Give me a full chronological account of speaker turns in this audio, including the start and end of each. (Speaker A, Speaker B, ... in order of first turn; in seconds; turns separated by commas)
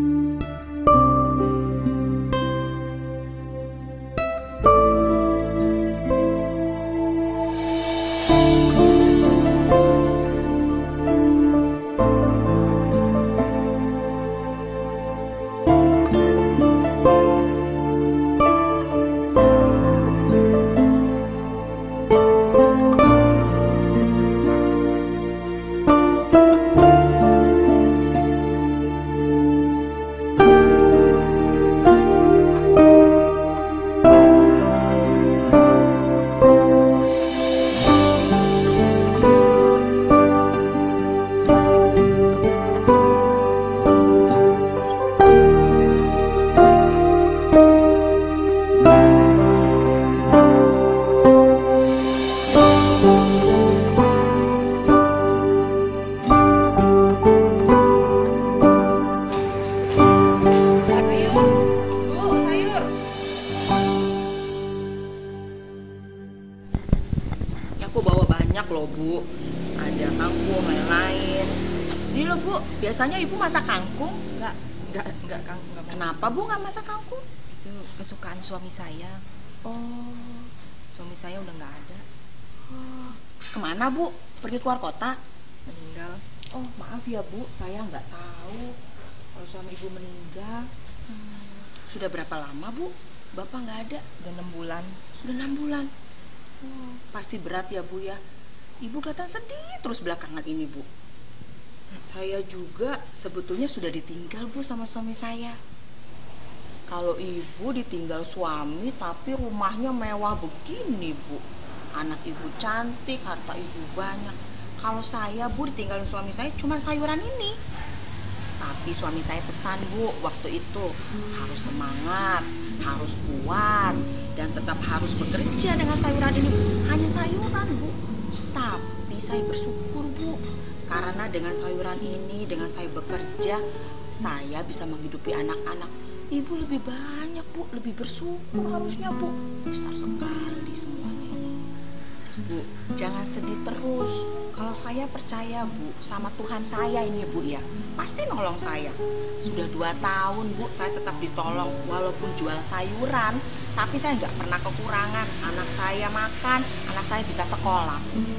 Speaker A: 60.9-61.5, Speaker A: 62.0-62.9, Speaker A: 67.8-69.3, Speaker A: 69.8-71.6, Speaker A: 72.1-74.3, Speaker B: 74.3-76.3, Speaker A: 75.9-77.2, Speaker B: 77.5-79.2, Speaker A: 79.7-80.3, Speaker B: 79.9-82.0, Speaker A: 82.7-85.2, Speaker B: 85.7-86.2, Speaker A: 86.5-88.7, Speaker A: 89.4-94.2, Speaker B: 94.2-95.0, Speaker A: 95.1-95.9, Speaker A: 96.6-98.2, Speaker A: 98.8-100.9, Speaker A: 102.0-105.6, Speaker A: 106.9-111.4, Speaker A: 112.0-117.5, Speaker A: 118.6-128.0, Speaker A: 128.5-133.6, Speaker A: 134.2-141.5, Speaker A: 142.3-158.1